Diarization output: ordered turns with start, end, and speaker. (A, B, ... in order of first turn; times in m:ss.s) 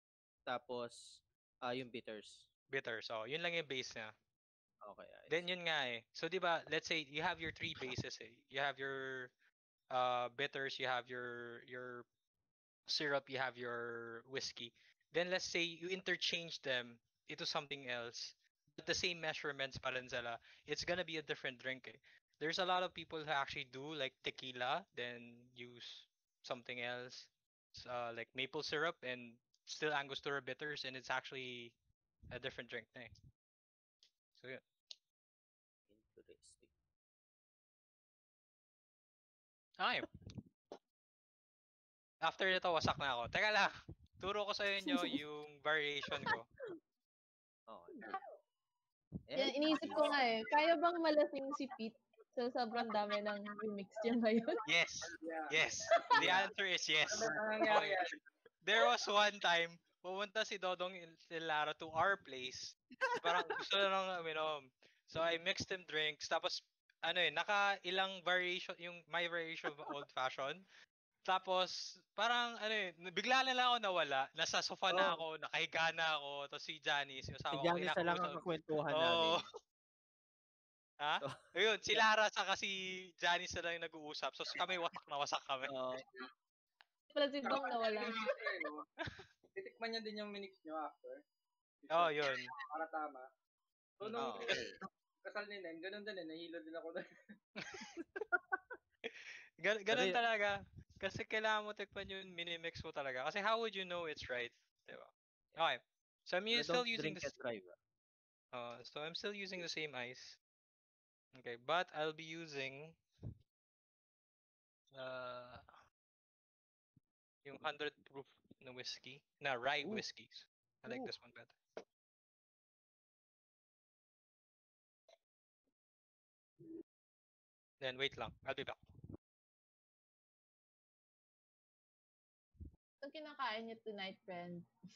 0:00.5-0:02.4 A
0:02.7-0:04.1 B
0:04.8-0:05.4 A
0:05.3-0:09.3 B
0:09.9-0:12.1 B
0:12.9-0:31.7 B
0:32.3-0:33.1 B
0:34.4-0:34.6 B
0:35.9-0:36.7 A
0:39.8-0:40.1 B
0:42.2-0:46.5 B
0:47.7-0:48.1 A
0:49.3-0:50.2 A
0:49.4-0:54.6 C
0:54.6-0:58.0 B
0:55.1-0:55.6 D
0:56.2-0:56.5 A
0:57.1-0:58.1 D
0:58.6-1:10.6 B
1:11.2-1:19.4 B
1:14.9-1:15.2 A
1:17.5-1:19.4 A
1:21.0-1:25.8 B
1:25.7-1:26.0 A
1:27.1-1:28.2 C
1:27.4-1:28.8 D
1:29.6-1:31.2 D
1:31.8-1:33.2 D
1:31.9-1:32.5 B
1:34.0-1:37.0 D
1:34.1-1:34.6 B
1:34.1-1:34.7 A
1:37.6-1:37.9 B
1:39.1-1:47.3 B
1:39.9-1:40.2 A
1:46.5-1:47.8 A
1:48.5-1:50.4 B
1:51.3-1:53.0 B
1:54.9-1:55.6 B
1:57.4-2:01.6 B
2:07.8-2:08.8 B
2:13.0-2:14.7 C